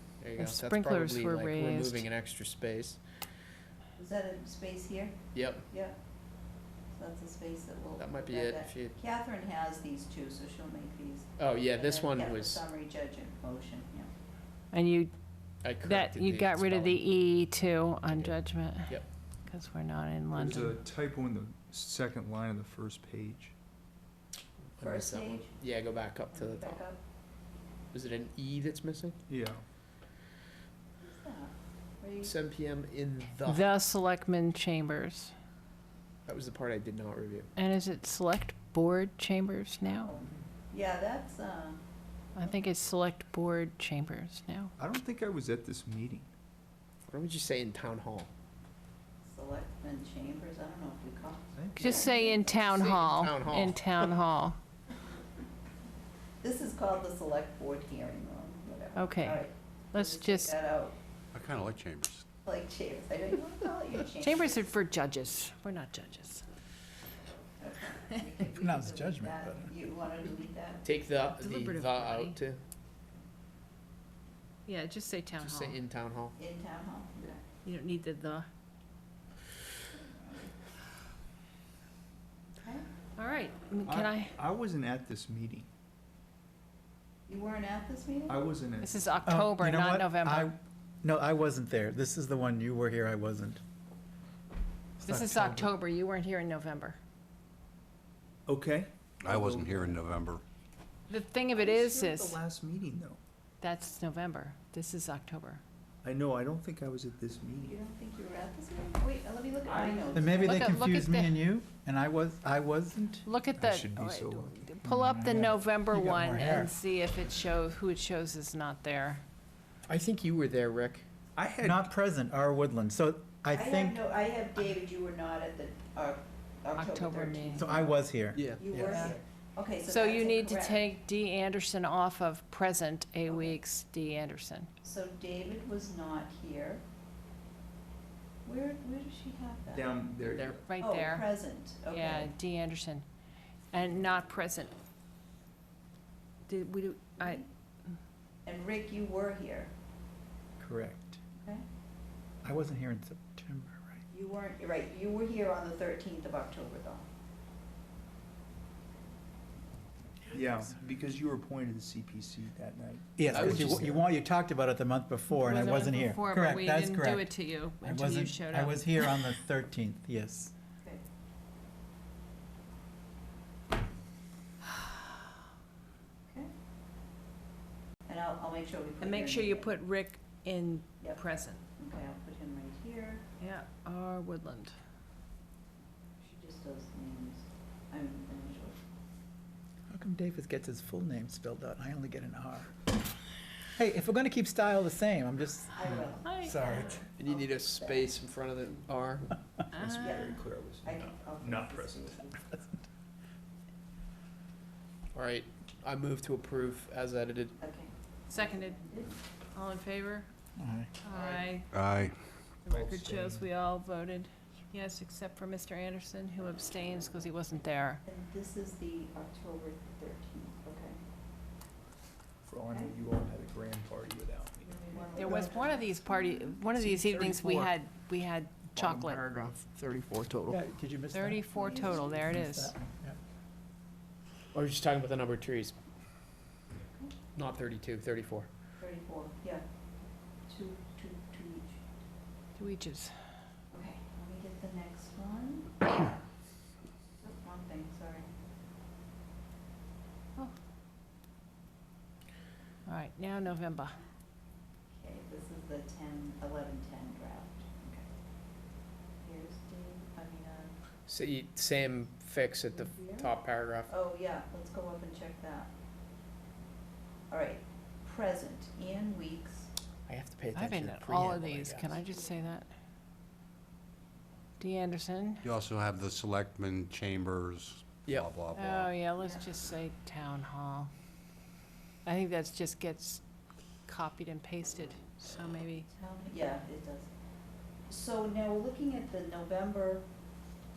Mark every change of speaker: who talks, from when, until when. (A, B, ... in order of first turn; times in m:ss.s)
0:00.2-0:03.0 A
0:00.4-0:02.1 B
0:04.0-0:05.9 C
0:05.3-0:05.6 A
0:06.9-0:14.1 C
0:08.0-0:09.0 A
0:11.4-0:12.6 A
0:14.7-0:15.1 B
0:15.6-0:17.0 A
0:15.8-0:20.8 B
0:18.1-0:19.0 A
0:20.3-0:23.5 D
0:24.8-0:26.9 A
0:24.8-0:25.5 C
0:26.3-0:27.0 C
0:27.9-0:29.2 A
0:29.3-0:29.6 D
0:31.0-0:32.3 C
0:32.2-0:33.7 A
0:33.4-0:35.3 B
0:36.2-0:37.5 A
0:37.6-0:40.1 B
0:39.9-0:41.8 C
0:42.3-0:44.7 B
0:44.8-0:46.3 D
0:47.1-0:48.3 A
0:49.2-0:52.7 C
0:51.5-0:52.1 D
0:51.8-0:54.6 B
0:52.6-0:54.1 A
0:56.4-1:01.0 C
0:59.0-1:00.5 B
1:01.3-1:02.2 E
1:02.4-1:04.6 C
1:04.2-1:06.4 B
1:07.6-1:10.8 C
1:08.5-1:09.8 F
1:10.8-1:12.6 A
1:11.3-1:12.4 B
1:14.6-1:15.8 B
1:15.4-1:16.4 A
1:16.4-1:17.4 C
1:17.6-1:18.5 B
1:22.5-1:22.8 C
1:23.2-1:24.3 B
1:23.8-1:25.7 D
1:27.3-1:28.4 C
1:28.3-1:29.2 D
1:28.8-1:30.5 B
1:29.2-1:33.6 F
1:35.0-1:35.7 F
1:35.0-1:37.0 B
1:38.5-1:40.1 D
1:39.2-1:40.4 E
1:41.1-1:42.4 B
1:41.6-1:42.4 C
1:42.1-1:43.2 D
1:43.6-1:45.6 B
1:46.0-1:47.8 D
1:47.6-1:50.7 C
1:49.6-1:50.4 D
1:50.1-1:53.2 F
1:50.4-1:51.4 B
1:53.2-1:59.2 B
1:53.5-1:54.7 D
1:54.8-1:56.7 F
1:59.9-2:01.0 A
2:01.4-2:01.9 D
2:01.6-2:04.0 F
2:03.5-2:07.8 C
2:06.7-2:07.7 B
2:07.5-2:09.1 F
2:08.3-2:08.6 A
2:08.6-2:10.8 C
2:08.8-2:09.2 B
2:09.8-2:14.7 B
2:13.3-2:13.6 C
2:14.8-2:16.8 C
2:18.4-2:19.8 C
2:19.7-2:20.6 D
2:20.3-2:20.6 A
2:20.7-2:23.0 B
2:20.8-2:22.3 C
2:23.7-2:24.7 B
2:26.5-2:27.4 B
2:28.4-2:29.7 C
2:30.6-2:31.2 F
2:31.4-2:31.6 C
2:32.4-2:34.0 F
2:34.1-2:37.0 C
2:40.3-2:44.1 D
2:43.2-2:50.5 F
2:43.3-2:43.7 A
2:45.3-2:49.2 B
2:58.0-2:59.8 C
2:59.0-3:01.6 B
3:01.8-3:03.2 C
3:03.4-3:04.8 B
3:06.2-3:08.8 C
3:09.9-3:12.8 F
3:13.7-3:17.0 F
3:15.7-3:18.1 C
3:16.2-3:17.0 B
3:17.2-3:19.3 A
3:19.7-3:20.3 B
3:19.7-3:22.2 D
3:20.0-3:22.4 C
3:25.1-3:27.6 A
3:27.6-3:29.1 C
3:28.3-3:28.9 B
3:29.5-3:30.3 B
3:30.6-3:30.9 F
3:31.0-3:31.7 B
3:31.1-3:31.4 A
3:31.7-3:32.2 E
3:32.6-3:38.0 B
3:32.7-3:33.5 D
3:38.0-3:41.0 C
3:42.4-3:44.8 D
3:44.6-3:46.4 C
3:45.0-3:49.2 B
3:46.8-3:47.7 A
3:48.8-3:50.6 A
3:50.5-3:53.2 F
3:51.1-3:52.7 B
3:51.6-3:52.0 C
3:54.5-3:55.7 A
3:57.3-3:58.5 A
3:58.8-3:59.6 C
4:00.5-4:01.8 C
4:02.5-4:03.1 B
4:03.7-4:06.2 C
4:07.2-4:08.3 C
4:12.8-4:14.0 B
4:14.9-4:18.0 C
4:19.2-4:20.7 C
4:21.1-4:23.9 A
4:22.8-4:23.3 C
4:23.9-4:25.7 C
4:27.3-4:29.7 C
4:30.0-4:32.0 A
4:30.5-4:32.7 B
4:34.6-4:35.4 B
4:35.4-4:39.0 E
4:38.5-4:40.9 B
4:42.0-4:43.2 B
4:43.8-4:45.9 B
4:45.9-4:47.1 C
4:47.9-4:50.0 C